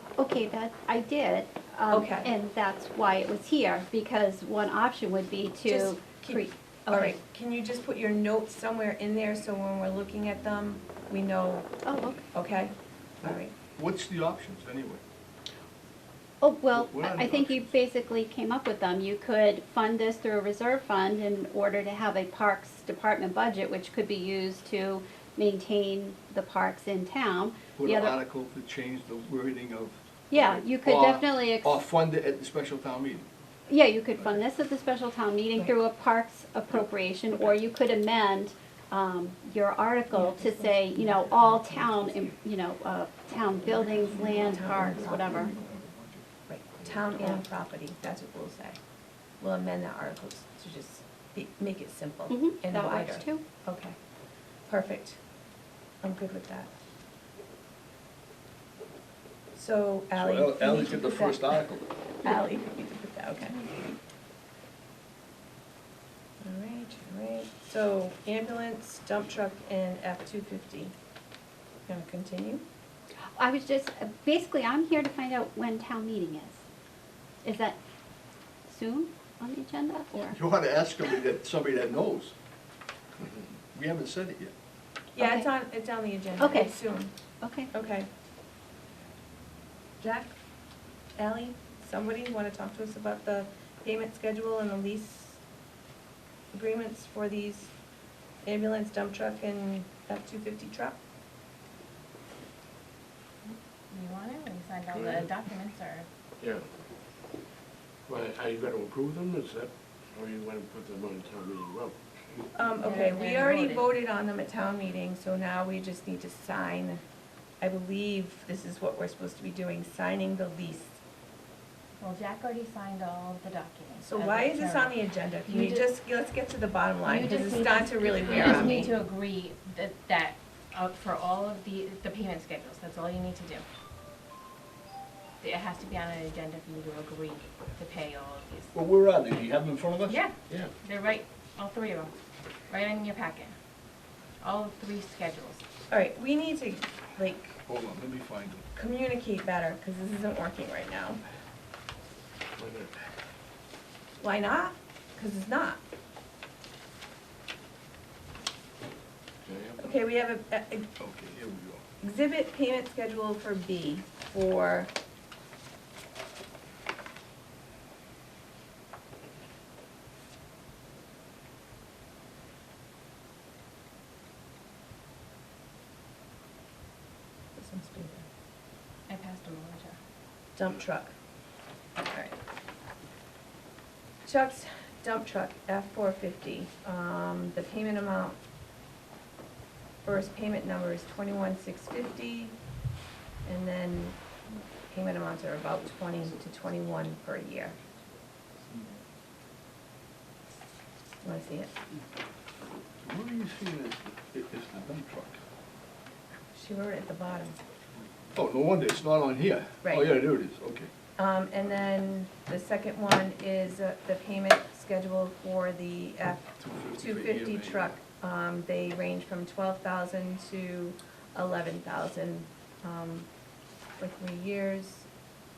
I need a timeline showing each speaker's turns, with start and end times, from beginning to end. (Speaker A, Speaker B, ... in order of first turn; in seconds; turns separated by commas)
Speaker A: 0.2-7.2, Speaker B: 1.9-2.3, Speaker B: 5.6-11.7, Speaker A: 11.8-12.3, Speaker B: 12.3-13.5, Speaker C: 13.8-15.0, Speaker A: 16.4-28.2, Speaker C: 16.7-17.7, Speaker C: 27.8-33.3, Speaker A: 30.3-31.8, Speaker A: 33.7-45.5, Speaker B: 40.1-42.3, Speaker B: 43.6-45.5, Speaker C: 44.5-46.2, Speaker B: 46.5-48.8, Speaker B: 49.4-54.0, Speaker A: 52.3-53.4, Speaker B: 54.7-55.2, Speaker B: 56.0-56.7, Speaker B: 59.5-61.7, Speaker C: 60.1-61.9, Speaker B: 62.2-63.8, Speaker B: 66.4-70.9, Speaker B: 71.9-72.6, Speaker A: 73.4-76.6, Speaker A: 77.4-77.8, Speaker A: 78.7-80.4, Speaker C: 80.2-82.3, Speaker C: 83.7-84.5, Speaker B: 85.2-87.1, Speaker A: 85.2-85.5, Speaker A: 86.4-86.8, Speaker A: 87.4-87.7, Speaker B: 87.7-88.1, Speaker B: 90.0-90.3, Speaker B: 91.2-95.4, Speaker B: 96.5-97.7, Speaker B: 98.4-101.0, Speaker D: 103.5-106.1, Speaker E: 104.9-105.3, Speaker E: 106.4-106.7, Speaker E: 108.1-112.4, Speaker B: 112.5-117.0, Speaker D: 112.8-113.9, Speaker B: 117.6-121.0, Speaker D: 122.0-125.9, Speaker B: 124.0-128.9, Speaker D: 127.0-133.6, Speaker E: 128.0-128.9, Speaker D: 135.4-138.7, Speaker C: 138.7-140.3, Speaker D: 140.1-142.1, Speaker E: 140.5-140.7, Speaker D: 142.7-143.5, Speaker D: 144.4-145.6, Speaker B: 145.9-147.6, Speaker C: 147.7-148.6, Speaker B: 148.7-151.2, Speaker E: 152.6-152.9, Speaker B: 154.2-155.8, Speaker E: 159.4-160.0, Speaker B: 159.8-160.9, Speaker C: 161.0-161.8, Speaker B: 162.0-164.9, Speaker B: 177.6-178.2, Speaker D: 179.1-180.0, Speaker B: 180.6-181.1, Speaker B: 182.1-182.4, Speaker B: 184.2-188.4, Speaker B: 190.0-192.6, Speaker B: 193.4-194.2, Speaker B: 194.9-197.8, Speaker B: 201.2-201.7, Speaker C: 203.0-205.4, Speaker B: 206.5-207.6, Speaker C: 208.3-210.9, Speaker B: 209.8-210.2, Speaker B: 211.2-223.3, Speaker C: 216.6-217.9, Speaker B: 224.0-225.1